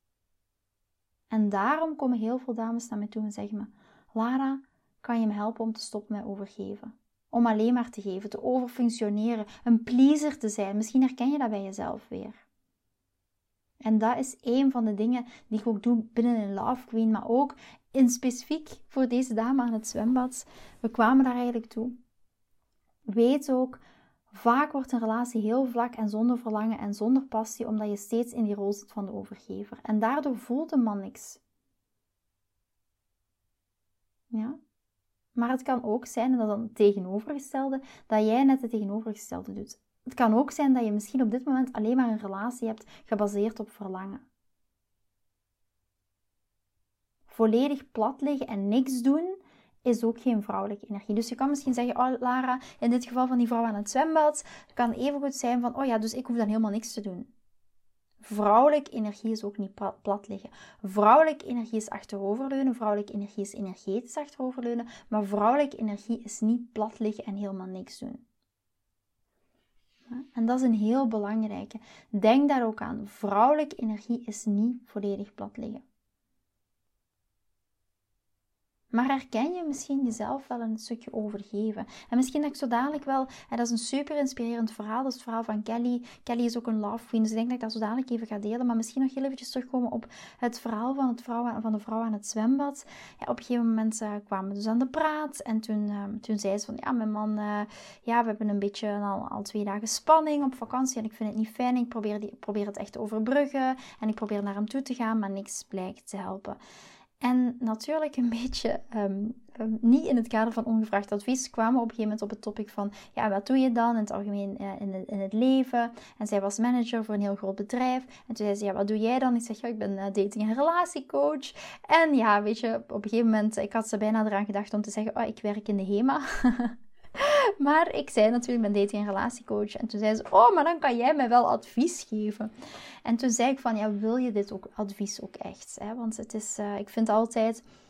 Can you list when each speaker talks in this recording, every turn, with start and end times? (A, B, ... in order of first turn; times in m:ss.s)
0:01.3-0:12.4 A
0:13.8-0:22.0 A
0:23.1-0:23.8 A
0:24.3-0:31.4 A
0:34.3-0:34.6 A
0:35.4-0:44.2 A
0:47.3-0:57.3 A
0:58.2-1:08.2 A
1:10.1-1:15.8 A
1:18.9-1:46.6 A
1:47.2-2:12.5 A
2:13.0-2:17.6 A